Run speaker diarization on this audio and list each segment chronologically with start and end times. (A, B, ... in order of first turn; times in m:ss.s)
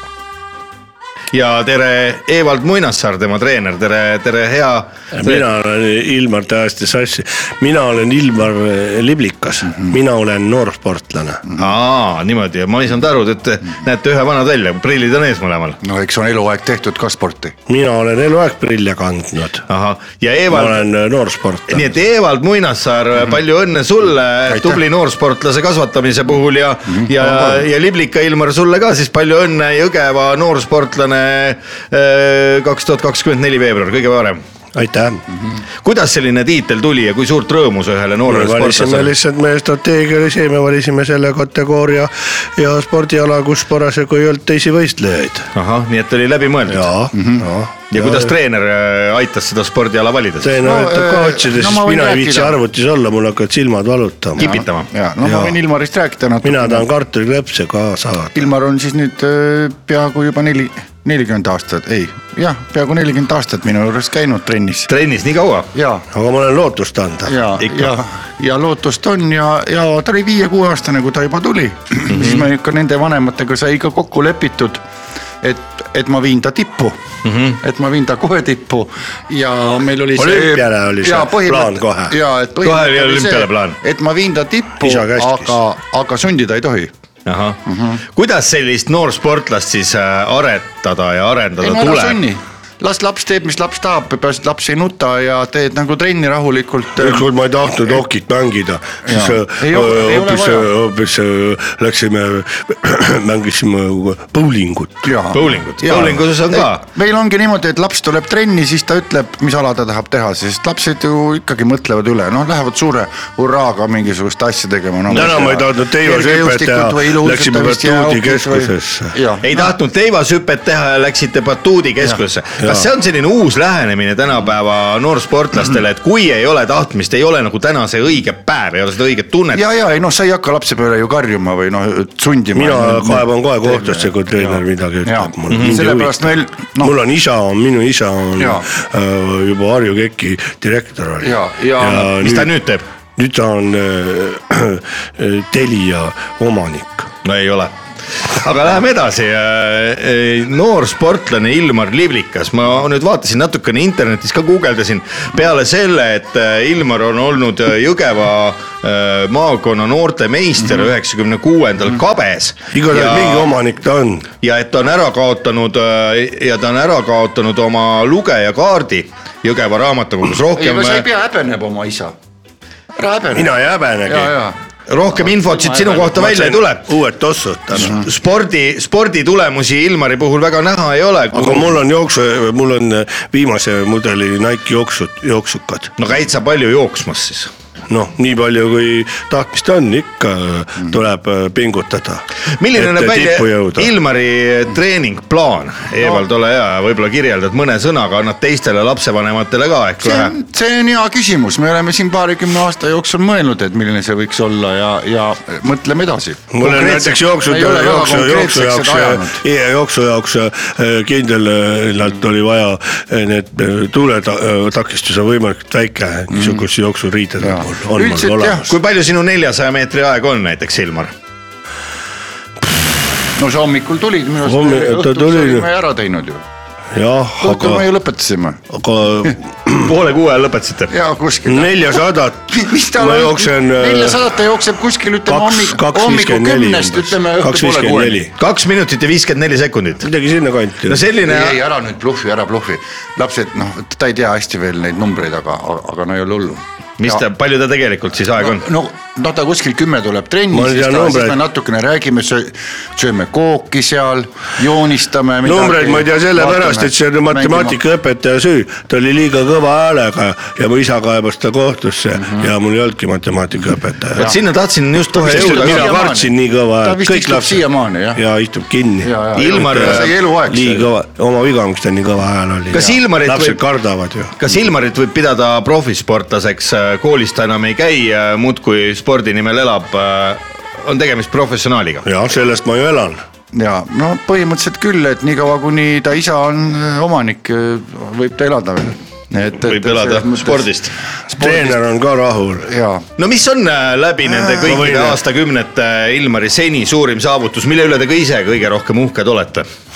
0:01.3-0:05.4 A
0:05.1-0:11.4 B
0:11.6-0:15.8 A
0:15.8-0:17.6 C
0:17.7-0:19.6 B
0:19.7-0:20.8 A
0:20.5-0:21.9 B
0:21.7-0:34.4 A
0:24.5-0:24.8 C
0:26.9-0:27.6 C
0:34.7-0:35.2 B
0:35.8-0:39.1 A
0:38.3-0:45.5 B
0:45.5-0:46.9 A
0:46.7-0:48.3 B
0:47.1-0:47.5 C
0:47.9-0:50.6 A
0:50.4-0:54.5 B
0:50.6-0:52.6 C
0:54.4-0:54.9 A
0:54.4-0:56.9 C
0:55.2-0:55.6 B
0:56.4-0:58.5 B
0:58.3-1:04.9 C
1:04.9-1:05.7 A
1:05.7-1:06.0 C
1:06.1-1:07.4 B
1:07.2-1:14.8 C
1:07.6-1:07.9 A
1:12.1-1:12.4 A
1:15.4-1:17.0 C
1:17.2-1:17.6 A
1:17.6-1:26.9 C
1:20.2-1:22.2 B
1:22.6-1:23.8 A
1:24.8-1:25.6 B
1:27.2-1:32.2 A
1:27.6-1:28.0 C
1:31.6-1:37.3 C
1:37.0-1:45.1 B
1:39.0-1:40.7 C
1:45.0-1:59.7 C
1:45.3-1:46.8 A
1:55.1-1:59.1 B
1:59.4-2:09.6 A
2:02.6-2:02.8 B
2:09.5-2:17.0 C
2:12.5-2:16.3 B
2:15.5-2:15.8 A
2:16.8-2:22.5 B
2:18.4-2:18.7 C
2:21.2-2:22.2 C
2:22.2-2:22.8 A
2:23.2-2:27.1 B
2:27.2-2:43.5 A
2:42.7-2:44.3 B
2:44.4-2:51.0 A
2:50.5-2:52.1 C
2:52.9-2:56.6 C
2:53.3-2:54.3 B
2:54.9-2:56.8 A
2:56.7-2:58.0 B
2:57.8-2:58.0 C
2:57.8-3:01.7 A
3:01.3-3:05.9 B
3:06.0-3:07.5 A
3:07.9-3:13.9 B
3:12.6-3:20.3 A
3:16.0-3:16.2 C
3:20.0-3:29.4 C
3:26.5-3:38.7 B
3:36.3-3:36.6 C
3:37.4-3:38.7 C
3:38.7-3:41.1 A
3:43.4-3:46.4 C
3:44.4-3:45.7 B
3:46.9-3:47.9 B
3:47.4-3:48.6 C
3:48.7-3:49.9 B
3:49.8-3:50.9 A
3:50.9-3:58.3 C
3:51.4-3:54.2 B
3:55.3-3:58.3 B
3:58.4-4:00.1 A
4:00.0-4:01.0 B
4:00.8-4:01.6 A
4:01.2-4:07.2 C
4:07.0-4:08.6 A
4:08.4-4:17.8 C
4:10.5-4:11.4 B
4:15.4-4:24.3 B
4:24.2-4:26.0 A
4:25.1-4:28.2 C
4:25.2-4:34.4 B
4:29.0-4:30.9 C
4:29.4-4:30.2 A
4:32.7-4:33.6 A
4:34.4-4:42.0 A
4:42.0-4:43.2 B
4:43.5-4:50.7 C
4:49.6-4:50.9 A
4:51.3-4:51.8 C
4:51.3-4:52.7 B
4:52.6-4:53.1 C
4:53.2-4:59.7 A
4:54.5-4:54.8 C
4:54.6-4:55.2 B